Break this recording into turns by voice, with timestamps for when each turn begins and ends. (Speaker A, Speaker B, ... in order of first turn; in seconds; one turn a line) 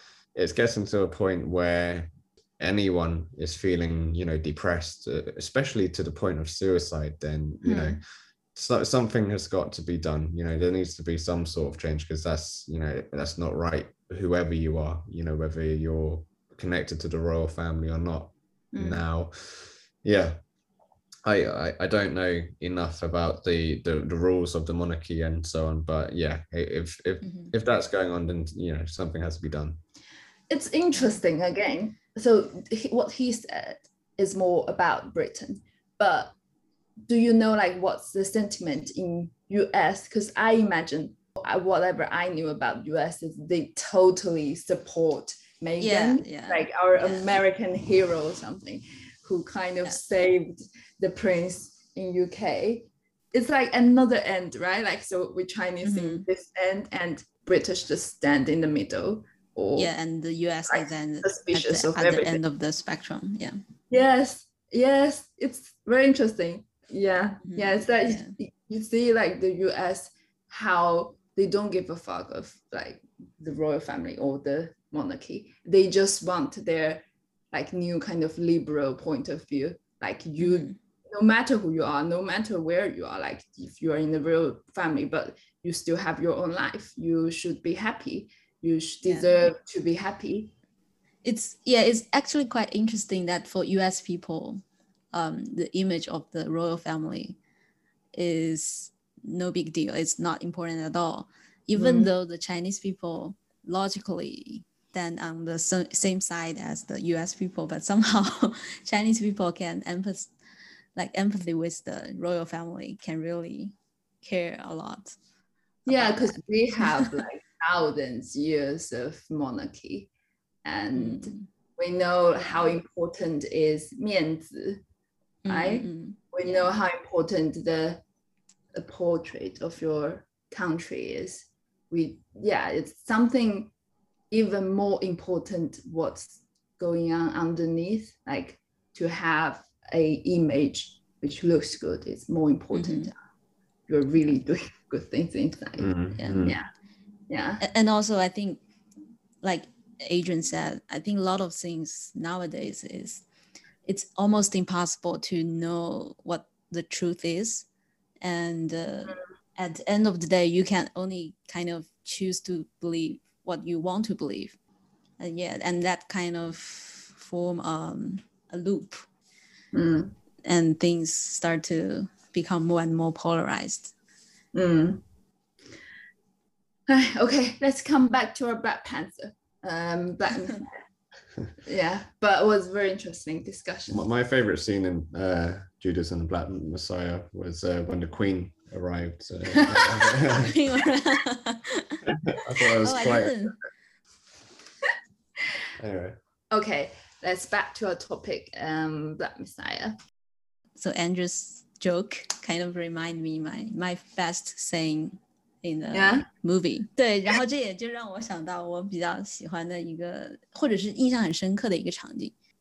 Speaker A: 0.3-8.0
Speaker B: 7.6-8.0
Speaker A: 8.5-20.4
Speaker B: 18.7-19.0
Speaker A: 21.2-29.8
Speaker C: 27.2-27.5
Speaker B: 30.5-36.3
Speaker B: 37.1-59.9
Speaker C: 45.8-47.3
Speaker C: 55.8-56.2
Speaker C: 59.8-63.6
Speaker B: 60.7-62.4
Speaker B: 63.9-90.5
Speaker C: 67.4-68.3
Speaker C: 80.4-80.8
Speaker C: 89.0-89.5
Speaker C: 91.2-97.4
Speaker C: 98.1-110.3
Speaker B: 101.7-102.1
Speaker C: 111.0-115.2
Speaker B: 115.8-120.1
Speaker C: 115.9-117.1
Speaker B: 120.6-124.8
Speaker C: 120.9-121.5
Speaker C: 125.4-126.2
Speaker B: 125.5-128.0
Speaker B: 128.7-133.7
Speaker B: 134.3-143.2
Speaker C: 142.7-143.1
Speaker B: 143.9-146.7
Speaker A: 145.8-146.6
Speaker C: 146.2-146.5
Speaker B: 147.3-147.6
Speaker C: 147.6-148.6
Speaker C: 149.4-153.2
Speaker C: 153.8-157.7
Speaker C: 158.2-164.5
Speaker C: 165.2-169.1
Speaker B: 169.7-170.1
Speaker C: 170.4-173.9
Speaker B: 174.5-175.0
Speaker B: 176.9-180.7
Speaker B: 181.6-184.0
Speaker A: 183.9-190.5
Speaker B: 189.5-190.2
Speaker C: 190.3-192.0
Speaker A: 192.1-193.3
Speaker C: 192.8-193.6
Speaker A: 195.8-196.2
Speaker B: 196.5-200.0
Speaker C: 200.8-212.3
Speaker B: 205.9-206.3